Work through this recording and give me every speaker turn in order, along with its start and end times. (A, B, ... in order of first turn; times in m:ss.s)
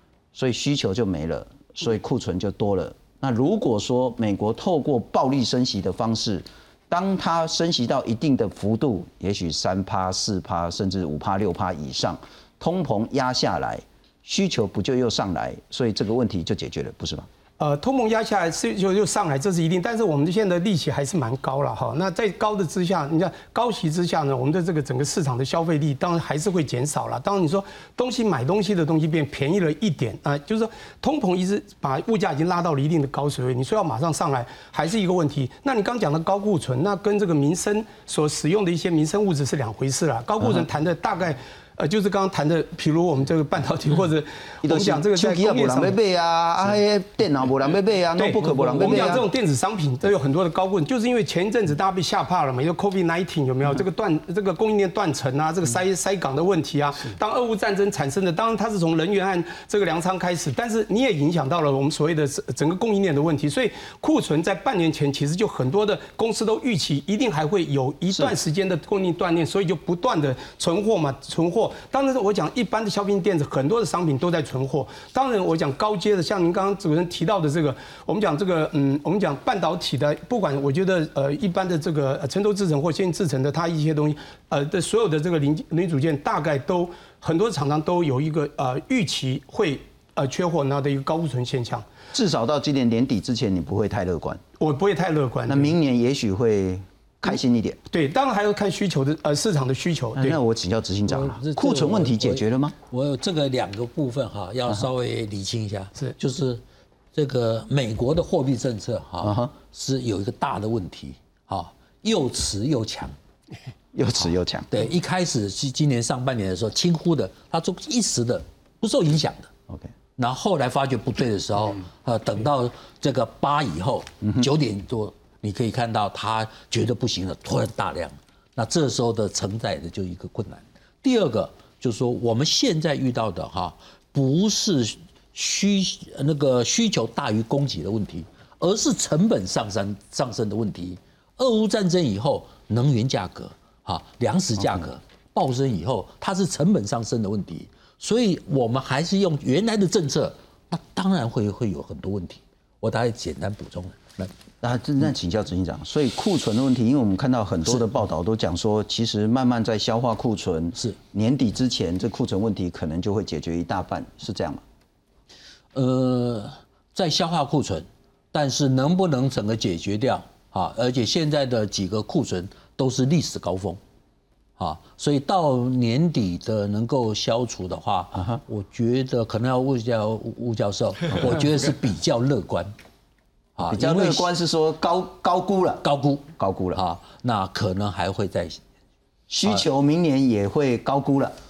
0:00.3-0:17.3 A
0:17.6-0:46.0 B
0:44.6-0:49.2 A
0:48.2-1:31.8 B
1:32.1-1:34.4 A
1:34.6-1:35.7 B
1:35.5-1:37.8 A
1:37.9-1:40.4 B
1:40.2-1:42.7 A
1:41.1-1:46.6 C
1:47.1-1:53.1 C
1:49.2-1:49.5 A
1:53.9-1:54.7 A
1:54.7-1:59.5 C
2:00.2-2:34.3 C
2:34.6-2:44.6 A
2:45.7-2:53.8 C
2:54.6-3:02.7 C
3:03.6-3:04.3 C
3:03.7-3:05.8 A
3:05.8-3:08.6 C
3:06.4-3:06.8 A
3:09.3-3:11.4 A